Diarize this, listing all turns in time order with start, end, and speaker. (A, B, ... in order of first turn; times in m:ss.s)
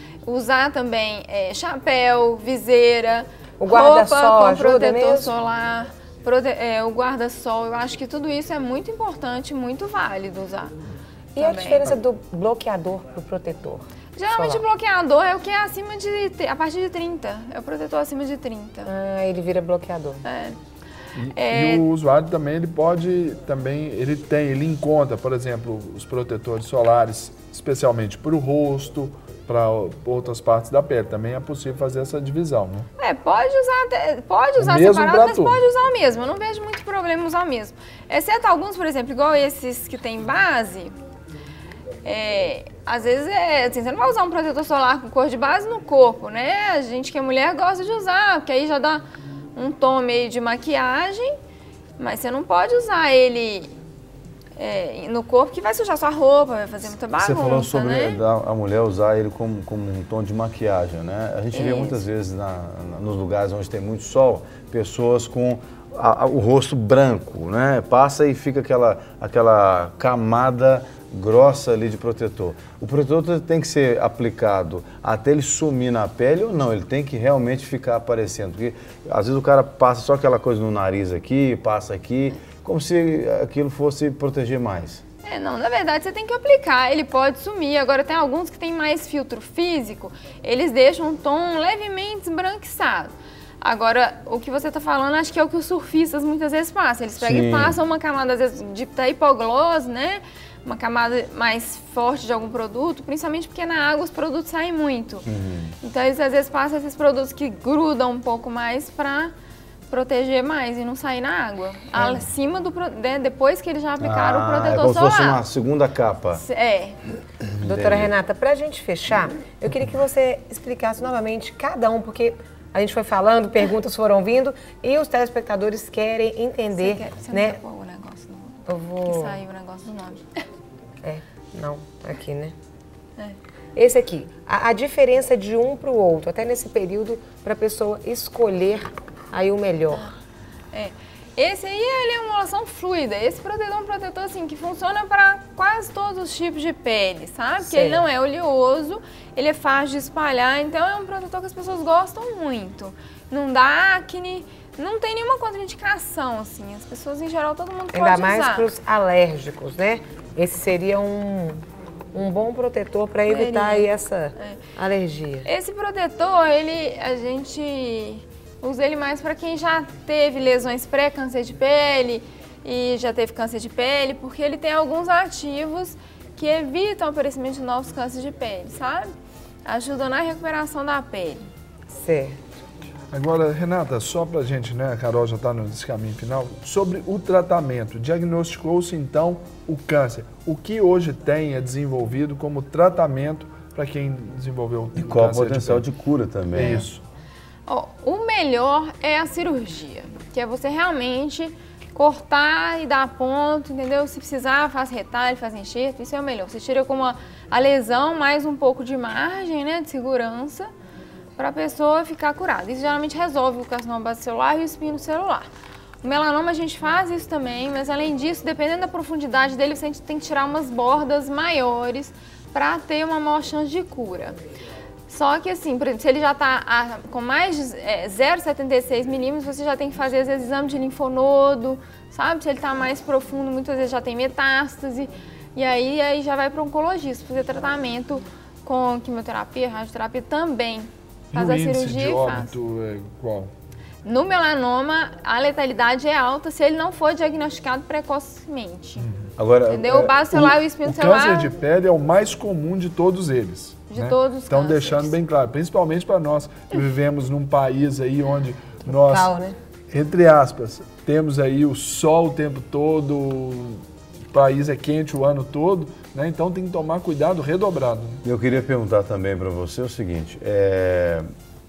0:00.2-0:10.8 A
0:03.6-0:05.3 B
0:11.4-0:11.9 A
0:11.4-0:14.6 B
0:14.2-0:18.9 A
0:18.9-0:20.2 B
0:20.2-0:20.6 A
0:21.2-0:32.9 C
0:21.3-0:21.9 A
0:33.0-0:40.9 A
0:34.6-0:35.6 C
0:42.0-0:49.0 A
0:49.6-0:51.3 A
0:52.0-0:53.7 A
0:54.6-0:58.2 A
0:57.2-1:25.0 D
1:01.5-1:02.0 A
1:25.2-1:45.3 A
1:37.2-1:37.8 D
1:45.2-1:45.8 D
1:45.8-1:49.3 A
1:49.9-1:55.4 A
1:51.9-1:52.2 B
1:54.0-1:56.4 D
1:56.4-1:57.0 A
1:57.5-1:58.1 D
1:57.6-2:07.6 B
2:06.7-2:10.4 A
2:08.7-2:09.4 B
2:11.0-2:12.5 B
2:13.8-2:20.1 B
2:20.7-2:38.7 A
2:27.6-2:28.0 B
2:37.9-2:41.6 B
2:42.1-2:45.5 B
2:43.3-2:44.6 A
2:45.5-2:59.1 A
2:59.6-3:01.5 A
3:01.9-3:02.4 B
3:03.1-3:15.8 C
3:15.0-3:16.9 D
3:16.5-3:17.0 C
3:17.7-3:30.7 A
3:31.4-3:35.5 A
3:36.0-3:44.4 A
3:45.1-4:02.5 A
4:01.3-4:03.5 C
4:04.0-4:09.1 A
4:09.0-4:09.3 C
4:09.4-4:10.6 D
4:09.7-4:11.5 A
4:10.8-4:19.3 C
4:13.9-4:15.1 A
4:18.9-4:19.6 B
4:19.9-4:28.2 C
4:28.2-4:31.2 D